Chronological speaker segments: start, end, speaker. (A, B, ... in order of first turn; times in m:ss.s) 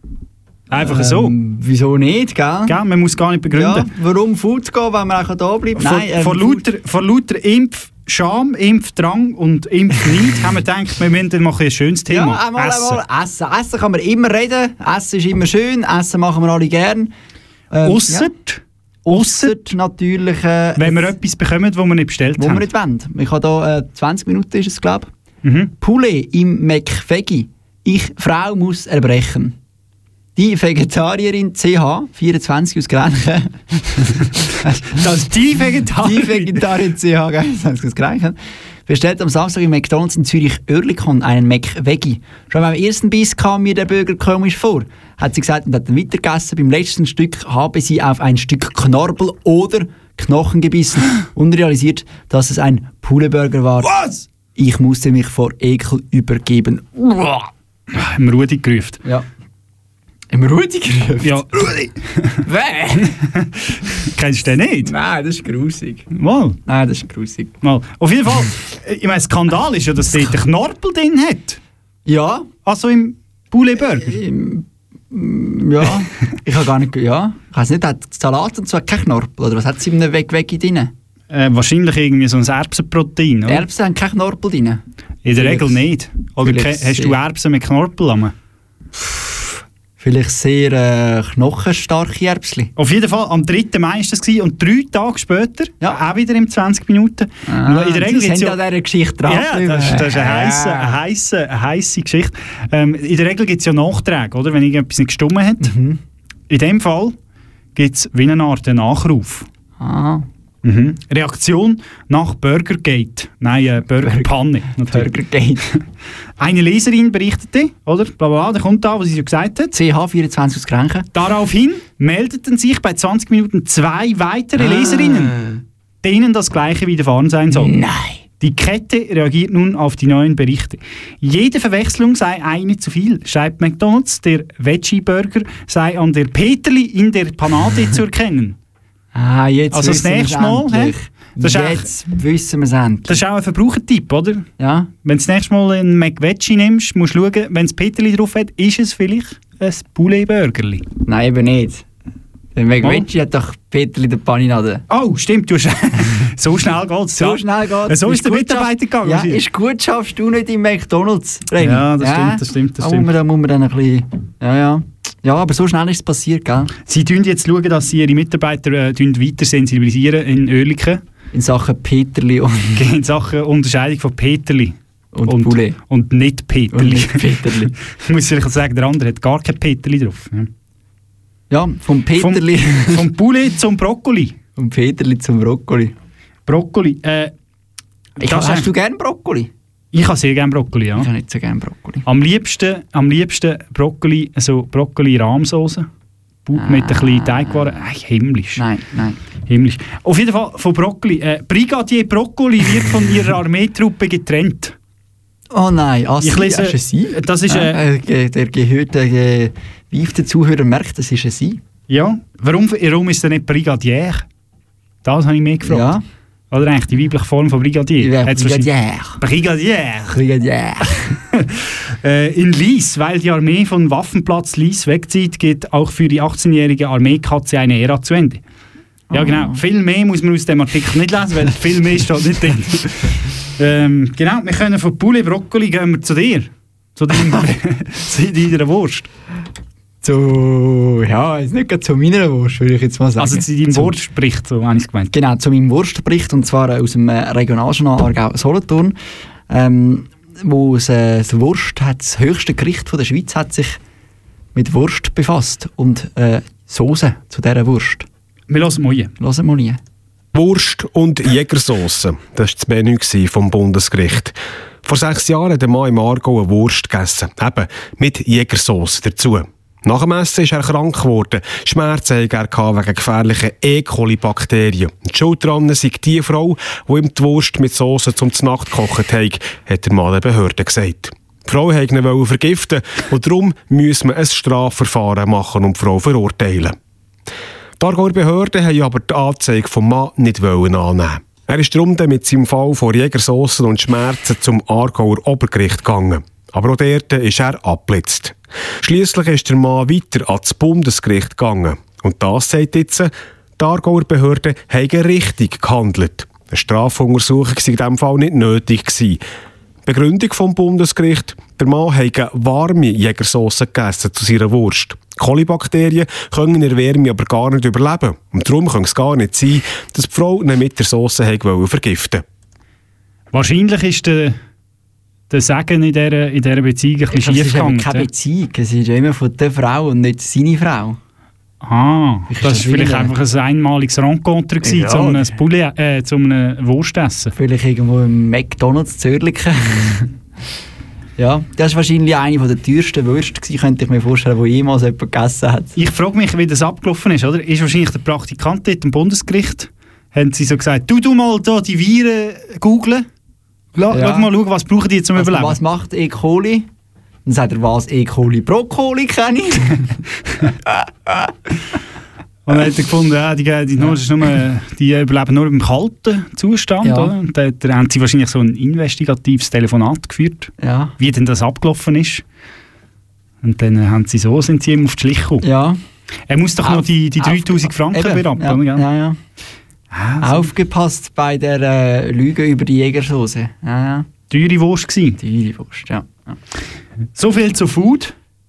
0:00.7-0:01.3 A
0:00.7-0:02.8 B
0:02.7-0:03.9 A
0:03.5-0:06.7 B
0:05.8-0:13.0 A
0:12.1-0:17.1 B
0:17.7-0:18.3 B
0:17.8-0:19.6 A
0:19.1-0:21.2 B
0:20.8-0:22.7 A
0:22.4-0:25.1 B
0:25.4-0:25.7 A
0:25.8-0:29.6 B
0:30.4-0:34.8 B
0:34.7-0:36.7 A
0:36.0-0:38.4 B
0:38.9-0:54.0 B
0:53.8-0:54.3 A
0:54.6-0:57.5 B
0:57.9-0:59.0 A
1:00.3-1:01.4 B
1:01.2-1:02.4 A
1:02.4-1:03.2 B
1:03.0-1:04.9 A
1:04.8-1:06.1 B
1:06.1-1:06.6 A
1:06.7-1:07.6 B
1:07.6-1:11.6 A
1:12.1-1:12.5 B
1:12.7-1:14.2 A
1:13.8-1:20.9 B
1:21.3-1:23.6 A
1:23.5-1:24.8 B
1:25.2-1:28.3 A
1:25.4-1:25.8 B
1:26.4-1:27.2 B
1:29.1-1:29.4 B
1:30.0-1:32.7 B
1:32.8-1:38.6 A
1:37.5-1:41.0 B
1:39.3-1:45.7 A
1:45.6-1:46.0 B
1:46.5-1:47.2 A
1:47.8-1:49.5 A
1:49.8-1:50.3 B
1:50.6-1:55.1 A
1:54.0-1:55.7 B
1:56.4-1:59.7 A
1:59.7-2:01.1 B
2:01.1-2:05.4 A
2:04.6-2:05.6 B
2:06.0-2:07.8 A
2:07.5-2:08.2 B
2:08.4-2:18.6 A
2:19.1-2:23.2 B
2:19.7-2:21.9 A
2:23.1-2:24.5 A
2:24.6-2:24.9 B
2:25.0-2:30.9 A
2:31.0-2:31.8 B
2:32.6-2:34.8 B
2:32.8-2:33.1 A
2:34.9-2:39.4 A
2:37.2-2:46.7 B
2:41.6-2:43.1 A
2:46.9-2:51.0 A
2:51.3-2:52.8 B
2:52.8-2:57.4 A
2:55.1-2:55.8 B
2:56.7-2:57.7 B
2:57.9-3:00.5 A
3:01.5-3:03.1 B
3:02.2-3:04.4 A
3:04.6-3:05.9 B
3:06.5-3:07.3 A
3:08.2-3:09.5 B
3:08.2-3:08.7 A
3:09.9-3:11.1 A
3:11.0-3:12.0 B
3:12.1-3:15.9 A
3:16.4-3:18.6 A
3:16.6-3:17.8 B
3:18.6-3:19.2 B
3:19.5-3:24.8 A
3:25.5-3:31.6 B
3:26.2-3:27.8 A
3:31.9-3:34.2 A
3:35.0-3:35.9 A
3:35.6-3:36.0 B
3:36.5-3:40.2 A
3:38.0-3:39.2 B
3:40.1-3:41.2 B
3:41.3-3:48.4 A
3:49.1-3:49.6 B
3:49.1-3:59.1 A
4:00.0-4:04.0 B
4:03.2-4:05.1 A
4:05.1-4:09.0 B
4:09.5-4:13.8 B
4:14.6-4:18.1 B
4:18.5-4:19.1 A
4:19.2-4:19.8 B
4:20.3-4:46.8 C
4:47.8-5:09.2 C
5:09.9-5:22.2 C
5:23.3-5:24.4 A
5:25.3-5:28.1 A
5:27.1-5:31.0 B
5:31.6-5:37.3 A
5:32.3-5:33.2 B
5:34.6-5:35.4 B
5:37.4-5:40.1 B
5:41.2-5:45.7 B
5:45.8-5:53.1 A
5:53.8-5:55.6 A
5:53.9-5:54.3 B
5:55.2-5:56.7 B
5:57.2-6:00.0 B
6:00.7-6:01.1 B
6:02.5-6:12.2 A
6:06.8-6:07.1 B
6:10.6-6:10.9 B
6:13.4-6:15.5 A
6:15.4-6:15.8 B
6:16.3-6:18.8 A
6:16.6-6:19.2 B
6:19.9-6:20.5 A
6:20.2-6:24.1 B
6:24.3-6:25.2 A
6:25.2-6:26.4 B
6:27.2-6:28.1 A